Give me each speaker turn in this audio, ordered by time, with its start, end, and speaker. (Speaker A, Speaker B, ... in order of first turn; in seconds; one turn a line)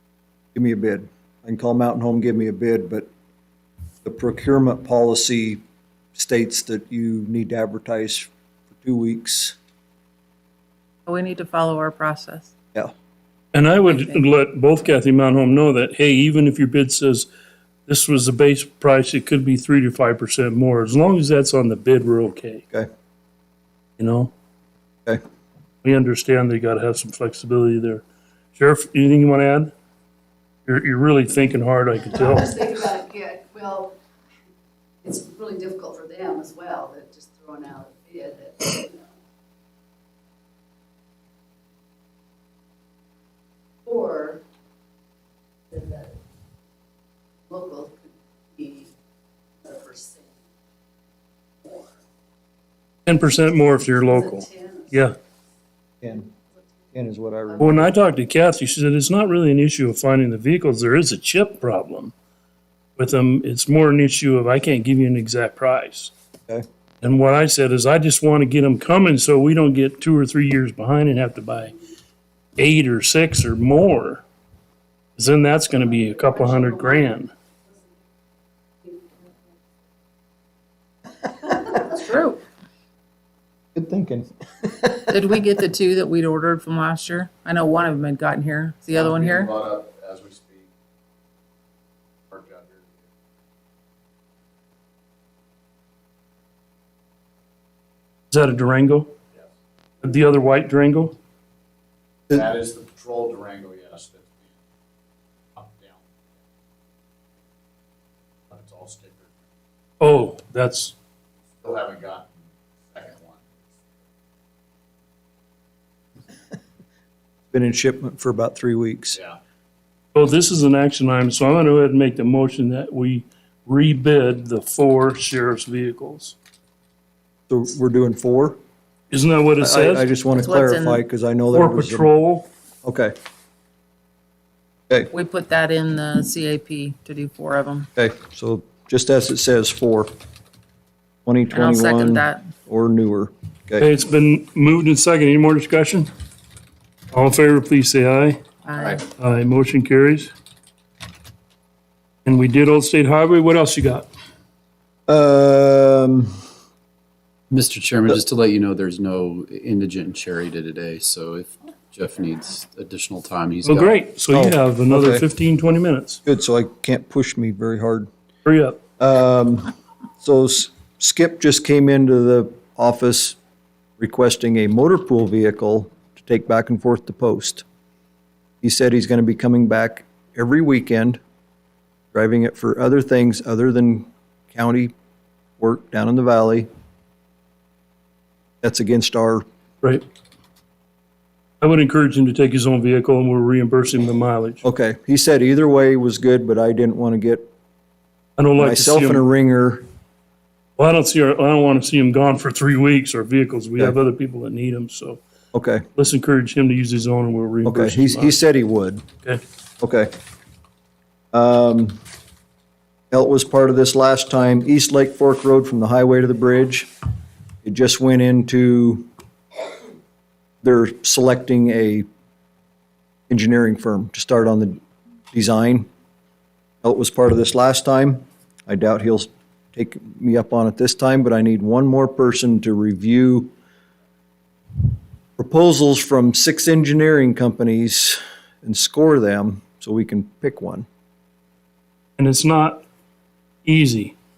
Speaker A: 0.6-3.1
Speaker A: 4.0-5.6
Speaker A: 6.2-8.3
Speaker A: 8.8-9.6
Speaker B: 11.1-12.5
Speaker C: 13.5-17.3
Speaker B: 13.9-14.2
Speaker C: 17.9-22.6
Speaker C: 24.0-24.3
Speaker C: 25.8-28.0
Speaker C: 28.6-29.7
Speaker C: 30.7-32.7
Speaker D: 32.1-34.0
Speaker D: 35.0-39.1
Speaker D: 43.9-44.4
Speaker D: 45.7-46.1
Speaker D: 47.5-48.9
Speaker D: 49.6-50.3
Speaker C: 53.1-55.2
Speaker D: 54.1-54.9
Speaker A: 56.0-56.3
Speaker A: 56.9-57.8
Speaker D: 57.5-57.8
Speaker C: 57.6-62.1
Speaker C: 63.0-66.1
Speaker C: 67.0-71.8
Speaker C: 72.6-74.2
Speaker C: 75.2-77.3
Speaker B: 81.8-82.4
Speaker A: 83.8-85.1
Speaker B: 85.1-89.5
Speaker E: 88.9-90.7
Speaker E: 92.3-93.1
Speaker C: 98.3-99.1
Speaker C: 100.0-101.2
Speaker E: 102.3-104.5
Speaker E: 105.6-106.2
Speaker E: 108.5-109.5
Speaker C: 110.0-110.9
Speaker E: 111.6-112.4
Speaker E: 112.9-113.5
Speaker A: 117.5-119.2
Speaker C: 120.1-126.4
Speaker A: 127.5-128.6
Speaker C: 129.1-130.1
Speaker A: 129.6-132.1
Speaker B: 130.3-131.0
Speaker C: 131.5-132.5
Speaker A: 132.8-133.1
Speaker B: 135.1-137.9
Speaker A: 138.0-140.1
Speaker A: 141.3-143.9
Speaker B: 141.5-142.5
Speaker C: 143.8-146.1
Speaker C: 147.1-148.4
Speaker B: 148.7-149.1
Speaker C: 149.2-150.3
Speaker C: 152.2-154.1
Speaker A: 155.1-156.4
Speaker F: 157.5-164.0
Speaker C: 163.7-166.2
Speaker A: 164.3-165.2
Speaker A: 166.2-168.1
Speaker C: 168.4-168.8
Speaker A: 169.0-173.4
Speaker A: 174.0-177.7
Speaker A: 178.6-181.2
Speaker A: 182.1-184.9
Speaker A: 185.6-186.7
Speaker A: 188.6-189.4
Speaker C: 191.6-194.6
Speaker A: 194.6-197.5
Speaker C: 198.4-199.2
Speaker A: 198.6-199.8
Speaker C: 200.8-205.2
Speaker A: 205.5-205.8
Speaker C: 205.9-208.4
Speaker A: 207.7-209.1
Speaker A: 209.8-210.1
Speaker A: 211.3-212.0
Speaker A: 213.1-216.9
Speaker A: 217.6-219.1
Speaker A: 220.6-222.1
Speaker A: 223.3-224.8
Speaker A: 225.3-225.9
Speaker A: 226.8-233.5
Speaker A: 235.4-240.9
Speaker C: 242.2-242.8
Speaker C: 243.7-244.1